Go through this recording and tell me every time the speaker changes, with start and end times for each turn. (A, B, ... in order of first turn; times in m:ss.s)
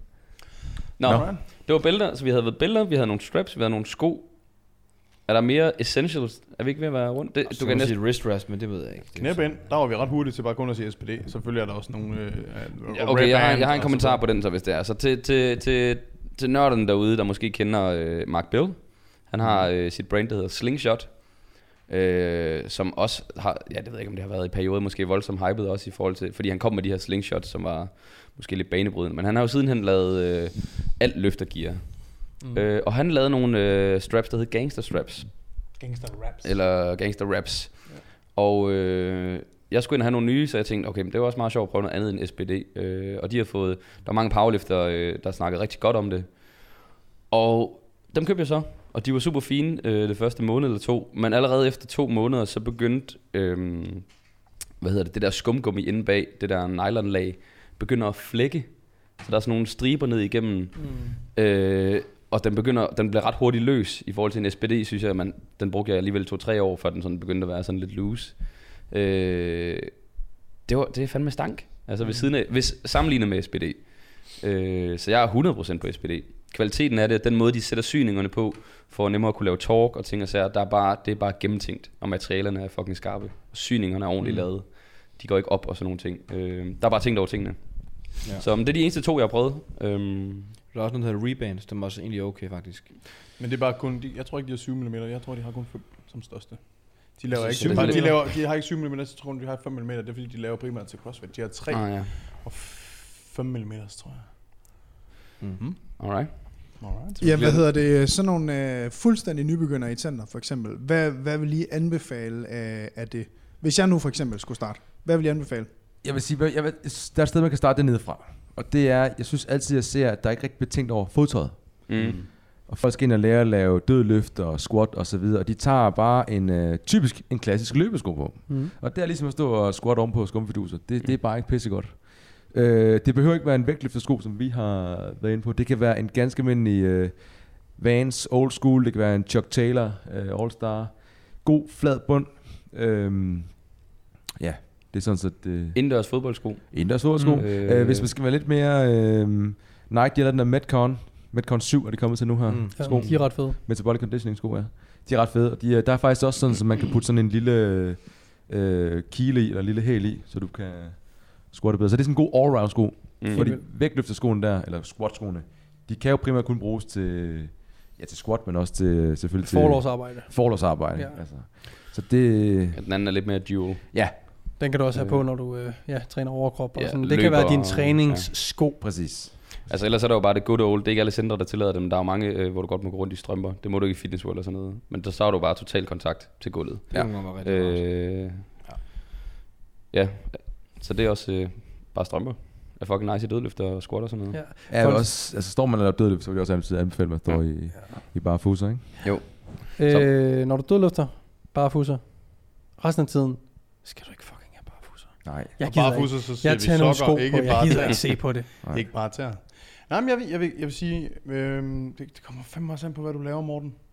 0:01.0-0:08.0 A
0:01.0-0:01.4 B
0:07.5-0:09.5 C
0:09.2-0:14.2 B
0:12.9-0:35.6 A
0:35.8-0:36.5 B
0:36.4-1:10.0 A
1:10.6-1:30.6 A
1:24.2-1:24.5 C
1:30.7-1:32.9 C
1:33.4-1:44.3 B
1:37.4-1:38.3 A
1:37.6-1:38.0 C
1:37.8-1:38.1 D
1:41.7-1:42.2 A
1:46.0-1:46.8 A
1:46.3-1:47.6 B
1:47.2-1:55.7 E
1:56.0-2:23.8 F
2:01.9-2:02.3 A
2:02.0-2:02.2 B
2:08.5-2:08.7 D
2:24.4-2:52.8 F
2:25.7-2:28.1 A
2:32.5-2:33.2 C
2:32.8-2:33.6 D
2:43.2-2:43.4 A
2:43.3-2:43.6 D
2:49.4-2:51.2 D
2:52.8-2:55.2 A
2:54.6-2:58.8 D
2:56.8-2:58.3 A
2:58.7-2:59.6 F
2:59.6-3:08.5 A
3:06.9-3:08.0 C
3:09.9-3:14.4 A
3:14.3-3:15.1 D
3:14.7-3:19.1 F
3:19.0-3:20.1 A
3:19.8-3:28.5 D
3:25.2-3:25.5 F
3:25.6-3:33.7 B
3:28.6-3:28.9 F